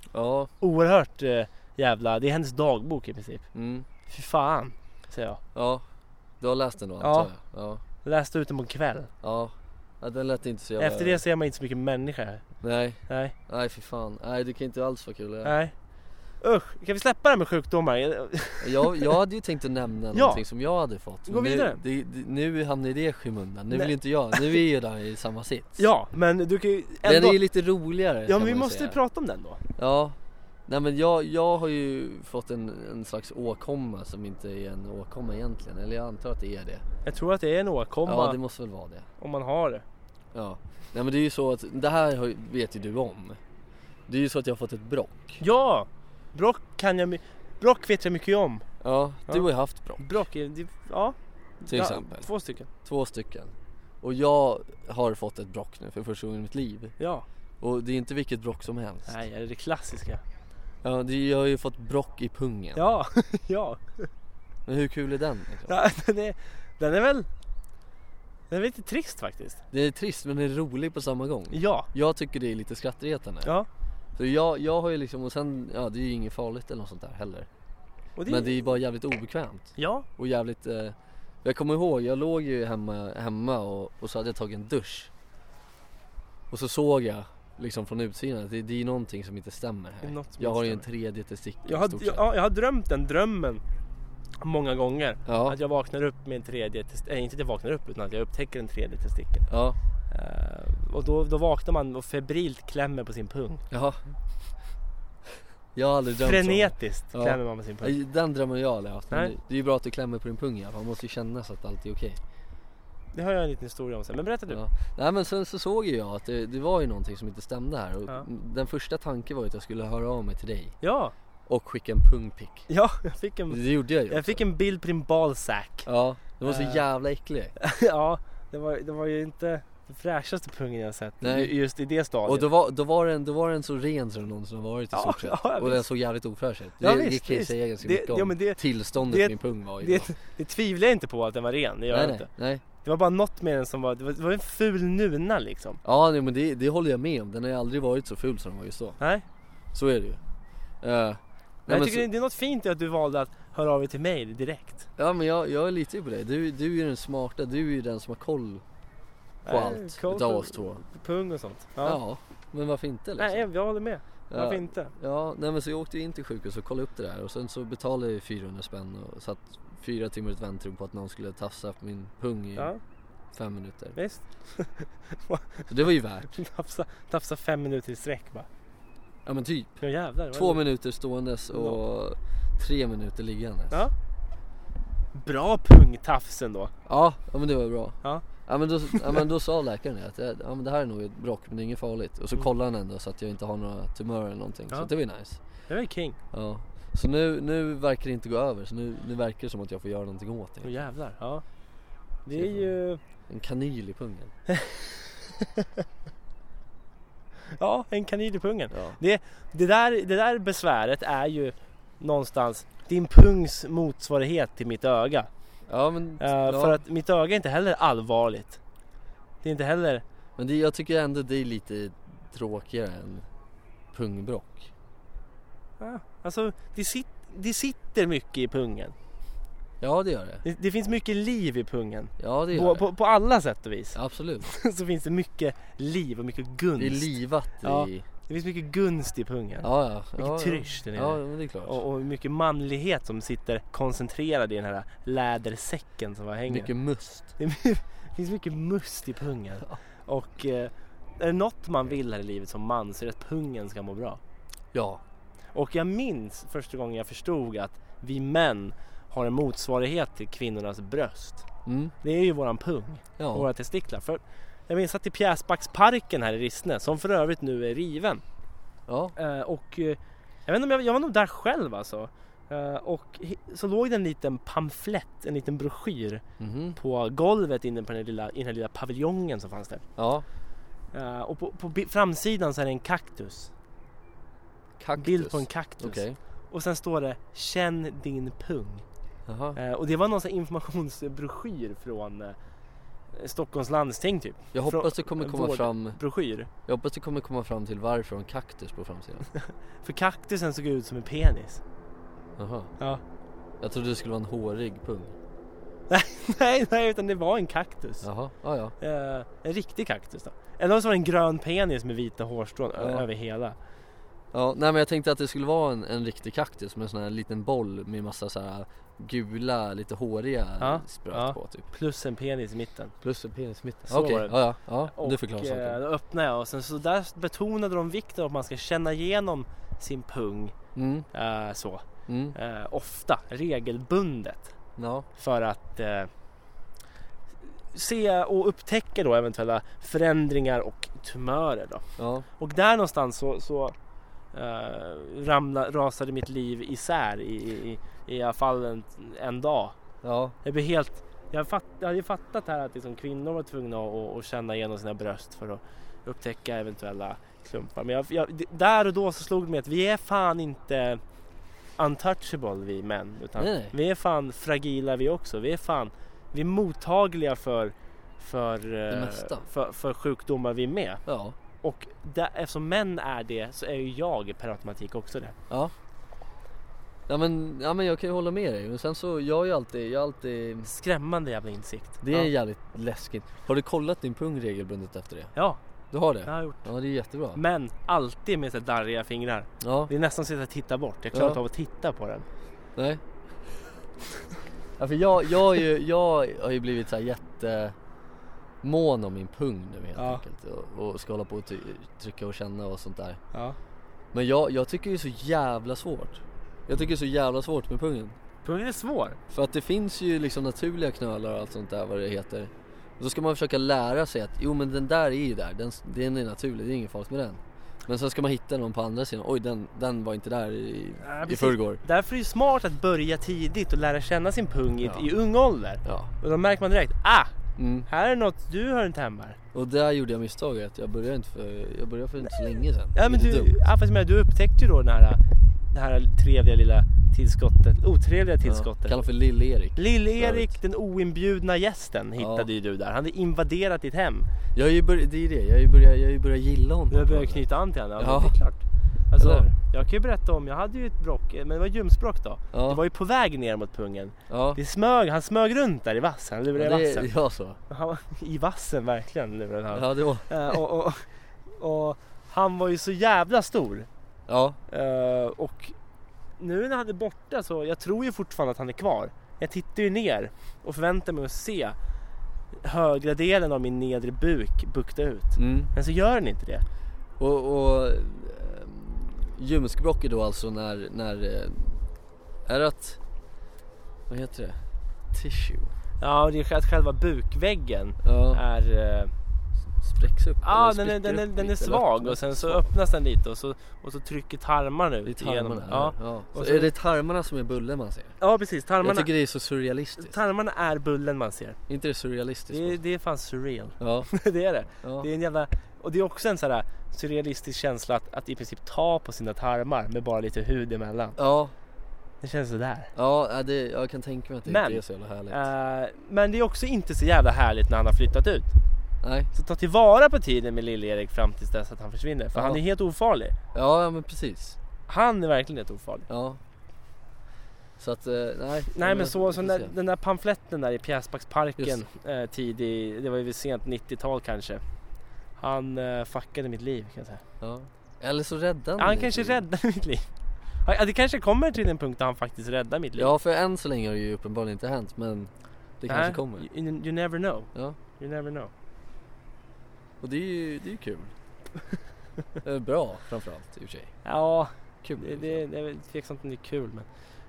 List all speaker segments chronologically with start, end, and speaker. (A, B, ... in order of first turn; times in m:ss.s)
0:00.1-0:00.5 A
0:00.6-0:03.5 B
0:03.5-0:03.9 A
0:04.1-0:05.4 B
0:05.5-0:05.8 A
0:06.4-0:07.8 A
0:07.0-0:07.3 B
0:08.0-0:09.1 B
0:09.2-0:11.2 A
0:10.8-0:12.4 B
0:12.6-0:15.5 A
0:13.1-0:13.3 B
0:15.4-0:15.7 B
0:16.4-0:19.1 B
0:18.6-0:25.8 A
0:20.1-0:20.4 B
0:21.3-0:21.8 B
0:23.7-0:24.6 B
0:25.8-0:27.4 B
0:27.0-0:29.0 A
0:28.2-0:29.6 B
0:29.8-0:36.8 A
0:37.0-0:38.4 B
0:38.0-0:39.1 A
0:39.2-0:39.8 B
0:40.3-0:43.4 A
0:44.1-0:45.4 A
0:45.4-0:48.6 B
0:48.8-0:50.1 A
0:50.0-0:52.7 B
0:51.7-0:52.3 A
0:52.8-0:56.9 A
0:57.0-0:57.2 B
0:57.6-0:59.1 A
0:59.1-1:00.2 B
1:00.8-1:02.8 A
1:02.7-1:04.1 B
1:04.6-1:05.8 A
1:05.7-1:07.3 B
1:08.5-1:09.6 B
1:09.7-1:13.5 A
1:11.5-1:11.9 B
1:14.2-1:17.5 A
1:18.2-1:18.5 B
1:18.3-1:25.1 A
1:19.8-1:20.0 B
1:26.5-1:32.2 A
1:30.0-1:30.8 B
1:31.6-1:33.6 B
1:34.4-1:39.5 B
1:35.2-1:35.6 A
1:39.5-1:39.8 A
1:40.1-1:43.6 B
1:43.7-1:44.0 A
1:45.7-1:52.2 A
1:46.2-1:47.9 B
1:53.1-1:54.6 B
1:54.5-2:00.8 A
2:00.8-2:01.1 B
2:01.5-2:02.7 A
2:02.7-2:05.9 B
2:03.5-2:04.4 A
2:05.8-2:07.5 A
2:06.4-2:06.8 B
2:07.6-2:12.5 B
2:11.2-2:11.5 A
2:12.2-2:20.1 A
2:14.9-2:15.8 B
2:16.8-2:25.8 B
2:21.9-2:22.6 A
2:25.8-2:29.0 A
2:29.7-2:30.2 A
2:30.8-2:32.0 A
2:31.7-2:34.8 B
2:35.0-2:38.6 A
2:39.4-2:42.0 B
2:39.4-2:40.8 A
2:41.8-2:43.5 A
2:43.2-2:44.9 B
2:44.3-2:52.7 A
2:53.3-2:54.0 A
2:53.9-2:55.7 B
2:55.7-2:56.3 A
2:56.3-2:58.5 B
2:59.2-2:59.8 A
2:59.8-3:00.6 B
3:00.3-3:03.9 A
3:01.5-3:01.8 B
3:05.1-3:06.7 B
3:06.8-3:15.4 A
3:08.9-3:09.2 B
3:15.7-3:16.2 B
3:16.3-3:20.8 A
3:20.6-3:21.4 B
3:22.2-3:23.0 B
3:22.3-3:22.8 A
3:23.3-3:24.3 A
3:24.5-3:25.4 B
3:27.5-3:35.3 B
3:28.7-3:29.0 A
3:35.7-3:36.8 A
3:36.2-3:38.6 B
3:39.4-3:40.0 B
3:40.4-3:43.3 A
3:43.9-3:44.7 A
3:45.8-3:48.9 B
3:49.8-3:50.4 A
3:50.4-4:06.7 B
3:52.2-3:52.9 A
3:53.9-3:54.5 A
3:56.8-3:58.0 A
3:59.6-4:01.8 A
4:06.5-4:07.3 A
4:07.4-4:14.2 B
4:14.7-4:15.0 A
4:15.5-4:21.4 B
4:21.6-4:21.9 A
4:22.0-4:28.2 B
4:23.2-4:23.5 A
4:28.9-4:29.1 A
4:29.2-4:36.2 B
4:36.4-4:36.8 A
4:36.8-4:39.8 B
4:40.0-4:40.2 A
4:40.9-4:43.5 B
4:44.8-4:46.2 A
4:45.0-4:48.8 B
4:49.3-4:49.6 A
4:49.5-4:52.4 B
4:53.1-4:56.5 B
4:54.5-4:56.0 A
4:56.7-4:59.2 A
4:59.3-5:01.6 B
5:02.4-5:02.7 A
5:03.6-5:05.1 A
5:05.9-5:08.0 B
5:08.0-5:08.7 A
5:08.8-5:13.6 B
5:12.8-5:13.0 A
5:14.3-5:21.7 A
5:20.6-5:22.9 B
5:23.0-5:25.8 A
5:23.9-5:30.5 B
5:30.7-5:31.1 A
5:31.1-5:34.5 B
5:32.1-5:32.4 A
5:34.8-5:35.0 A
5:35.2-5:36.1 B
5:37.7-5:41.8 B
5:42.0-5:42.2 A
5:42.4-5:43.7 B
5:44.3-5:49.8 B
5:50.0-5:50.3 A
5:50.4-6:01.0 B
6:01.8-6:11.0 B
6:03.4-6:03.7 A
6:08.9-6:09.4 A
6:11.0-6:11.4 A
6:11.6-6:15.4 B
6:17.1-6:20.7 A
6:20.6-6:22.3 B
6:22.0-6:25.3 A
6:25.9-6:27.4 A
6:26.2-6:26.6 B
6:27.3-6:32.3 B
6:29.6-6:29.9 A
6:31.1-6:31.4 A
6:32.8-6:33.0 A
6:34.8-6:37.7 A
6:38.6-6:43.2 A
6:40.0-6:40.2 B
6:44.1-6:48.2 A
6:48.4-6:49.2 B
6:49.3-7:01.8 A
7:01.0-7:07.3 B
7:04.8-7:05.1 A
7:05.8-7:06.1 A
7:07.6-7:07.9 A
7:07.9-7:09.4 B
7:09.5-7:13.6 A
7:12.9-7:19.0 B
7:18.4-7:20.5 A
7:19.8-7:24.3 B
7:22.2-7:22.5 A
7:24.5-7:27.4 A
7:26.9-7:37.1 B
7:28.0-7:28.3 A
7:29.2-7:29.4 A
7:32.5-7:32.8 A
7:34.3-7:34.6 A
7:36.5-7:37.6 A
7:37.7-7:43.9 B
7:39.7-7:40.6 A
7:44.3-7:44.6 A
7:44.7-7:45.7 B
7:46.4-7:51.8 B
7:52.6-7:56.6 B
7:55.4-7:55.7 A
7:57.2-8:01.8 A
8:02.4-8:03.0 A
8:04.1-8:04.6 A
8:05.1-8:05.7 A
8:06.0-8:09.1 B
8:08.0-8:08.4 A
8:09.8-8:12.7 A
8:10.4-8:16.7 B
8:15.0-8:18.2 A
8:18.2-8:19.1 B
8:18.8-8:20.1 A
8:20.0-8:21.6 B
8:21.7-8:22.8 A
8:22.5-8:31.2 B
8:23.8-8:24.1 A
8:24.8-8:25.1 A
8:31.2-8:31.5 A
8:32.2-8:32.9 B
8:32.9-8:35.5 A
8:34.4-8:38.5 B
8:39.0-8:39.3 A
8:39.3-8:43.3 B
8:42.3-8:42.6 A
8:43.5-8:44.6 A
8:44.9-8:46.1 B
8:46.1-8:46.4 A
8:47.8-8:49.7 A
8:48.7-8:54.6 B
8:55.4-8:57.2 B
8:57.4-8:59.4 A
8:58.8-9:00.1 B
9:00.6-9:03.1 B
9:03.0-9:06.4 A
9:05.9-9:08.5 B
9:10.0-9:11.1 A
9:12.4-9:13.9 A
9:14.0-9:16.8 B
9:14.8-9:15.4 A